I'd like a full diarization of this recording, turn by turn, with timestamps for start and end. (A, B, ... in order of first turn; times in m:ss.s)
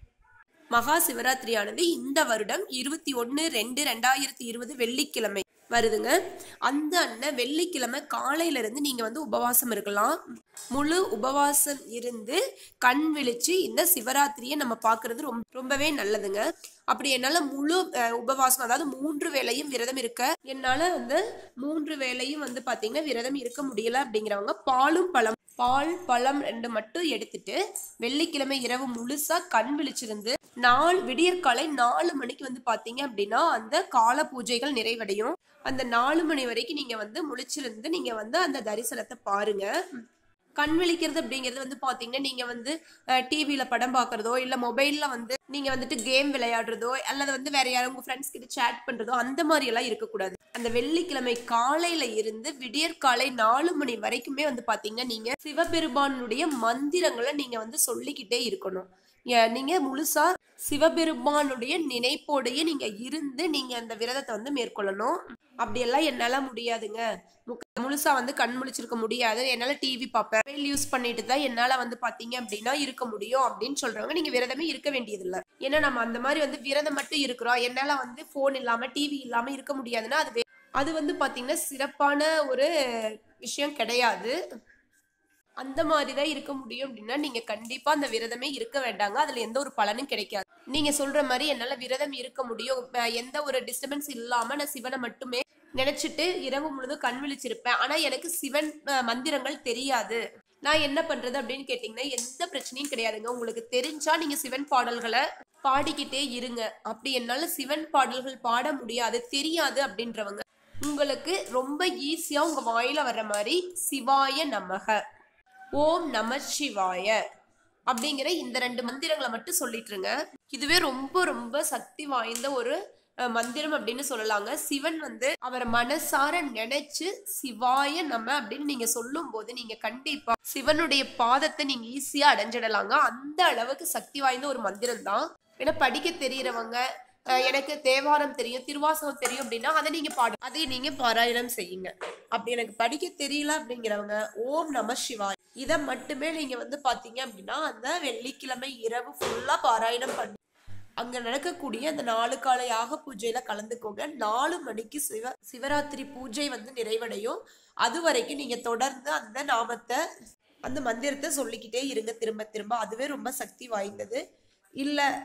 0:00.7-0:06.1 A
0:06.6-0:10.2 A
0:10.7-0:39.7 A
0:40.6-1:24.4 A
1:25.6-1:55.0 A
1:55.8-1:57.2 A
1:57.9-2:02.8 A
2:03.3-2:16.8 A
2:17.3-2:30.4 A
2:31.0-2:40.0 A
2:40.6-2:44.2 A